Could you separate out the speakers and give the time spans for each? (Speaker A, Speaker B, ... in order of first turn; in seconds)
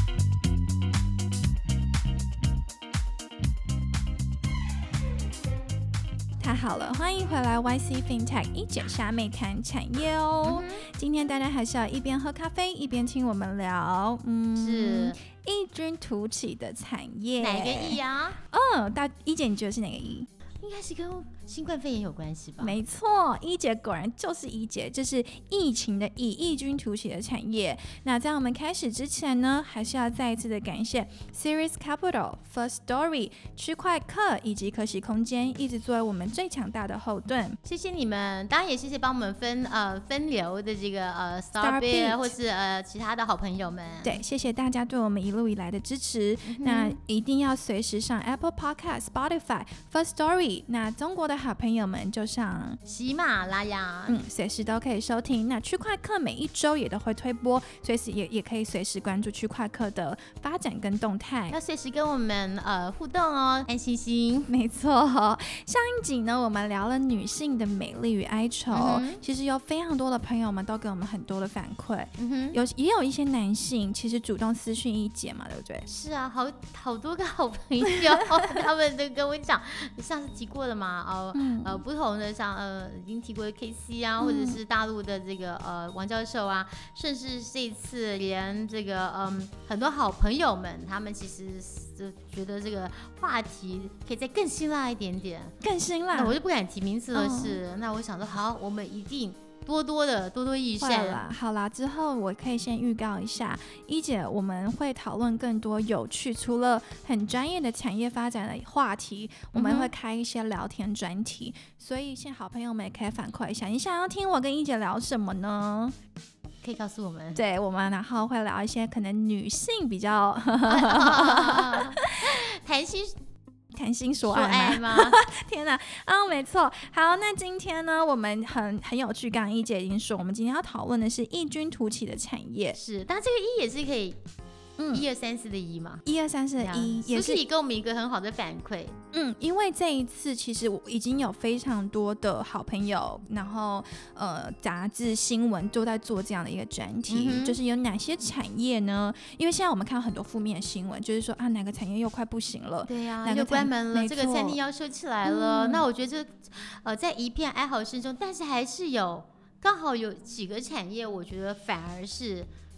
Speaker A: 6.4-20.3, 22.6-37.6, 41.6-42.4, 44.0-52.8, 54.1-61.6, 64.5-75.9, 81.3-81.8, 84.2-84.6, 95.6-96.4, 97.1-97.6, 100.8-116.0, 117.3-122.3, 123.7-132.8, 134.8-135.1, 136.1-137.4, 139.1-154.6, 155.2-155.9
Speaker B: 10.4-10.9, 14.6-15.2, 17.4-18.4, 20.6-22.8, 37.6-44.2, 46.4-47.0, 52.9-54.2, 61.5-64.5, 68.7-69.2, 72.2-72.6, 75.9-95.6, 96.1-101.3, 109.5-109.9, 116.6-117.4, 120.6-123.2, 124.2-125.2, 132.8-134.2, 134.9-136.0, 136.6-139.0, 147.1-147.6, 152.9-162.5